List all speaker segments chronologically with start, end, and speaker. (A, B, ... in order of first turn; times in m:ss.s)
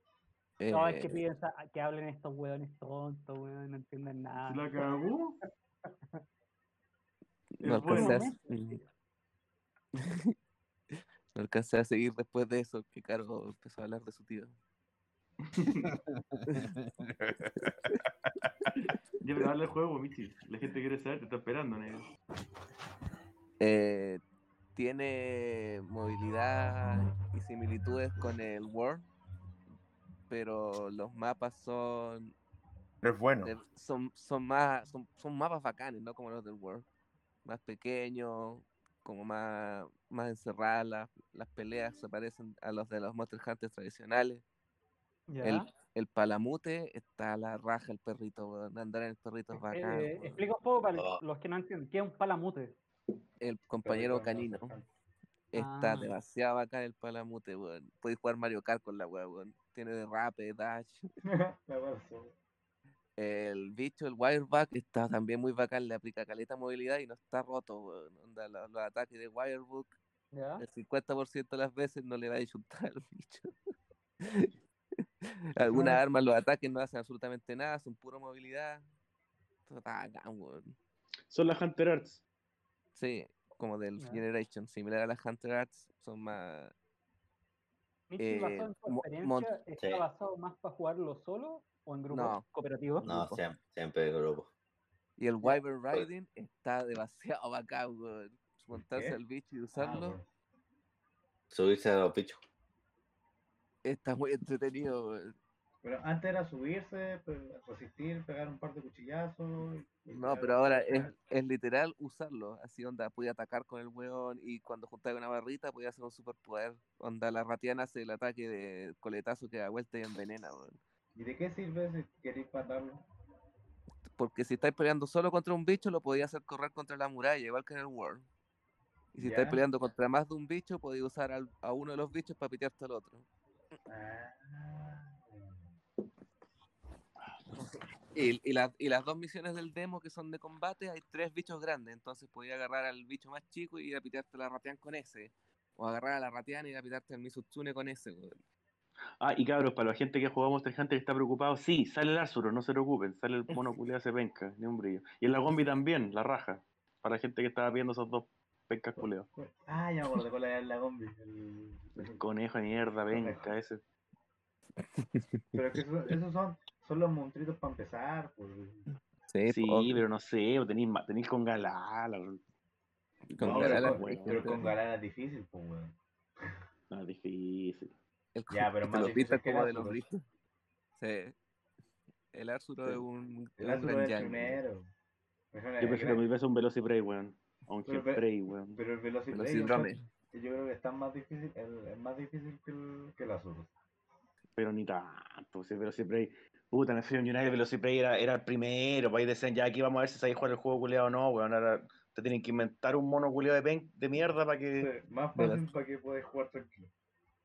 0:00.6-0:01.2 A
0:00.7-0:04.8 B
0:04.4-0:05.4 C
0:07.6-0:08.3 C
0:07.6-0:08.8 A
0:07.8-0:08.8 B
0:09.9-0:10.3 A
0:10.9-0:14.5 A
0:15.4-0:15.9 C
0:15.9-0:18.7 D
0:16.5-0:16.7 A
0:18.8-0:22.1 C
0:23.6-0:24.2 A
0:24.7-0:29.0 A
0:30.3-0:32.3 A
0:33.0-0:33.5 D
0:33.4-0:36.8 A
0:37.4-0:44.4 A
0:45.3-0:45.7 B
0:45.4-0:50.4 A
0:49.5-0:52.7 B
0:50.9-0:51.2 E
0:53.4-0:54.8 A
0:53.8-0:54.8 F
0:55.5-1:01.1 A
0:55.6-0:56.2 B
1:01.2-1:02.3 F
1:03.2-1:09.9 A
1:10.3-1:10.6 B
1:10.6-1:13.5 A
1:14.2-1:14.5 A
1:15.5-1:18.8 A
1:15.7-1:16.0 F
1:19.7-1:20.7 A
1:21.3-1:22.2 C
1:23.0-1:26.7 A
1:28.1-1:33.1 B
1:28.2-1:29.5 A
1:32.1-1:32.5 A
1:33.0-1:33.4 A
1:33.0-1:34.5 E
1:35.2-1:40.2 A
1:38.7-1:39.2 F
1:39.7-1:40.2 F
1:41.5-1:42.4 E
1:43.8-1:45.3 A
1:45.8-1:51.2 F
1:50.1-2:00.8 A
2:01.2-2:03.0 F
2:04.1-2:08.2 A
2:09.1-2:13.2 A
2:09.2-2:09.6 F
2:13.9-2:15.7 F
2:17.5-2:28.4 A
2:29.2-2:39.3 C
2:39.0-2:42.2 F
2:42.0-2:43.8 C
2:43.1-2:43.5 F
2:44.8-2:45.6 A
2:45.5-2:48.9 F
2:48.9-2:50.0 A
2:49.4-2:52.4 C
2:53.3-2:54.7 A
2:53.4-2:56.6 F
2:53.4-2:54.7 C
2:56.9-2:57.9 C
2:58.3-3:00.2 A
2:58.5-3:00.0 F
3:01.0-3:01.3 A
3:02.3-3:04.6 A
3:03.6-3:04.9 F
3:05.5-3:06.2 F
3:05.8-3:08.8 C
3:07.8-3:13.7 F
3:09.3-3:10.1 A
3:14.6-3:24.9 C
3:24.8-3:26.9 F
3:25.4-3:25.7 A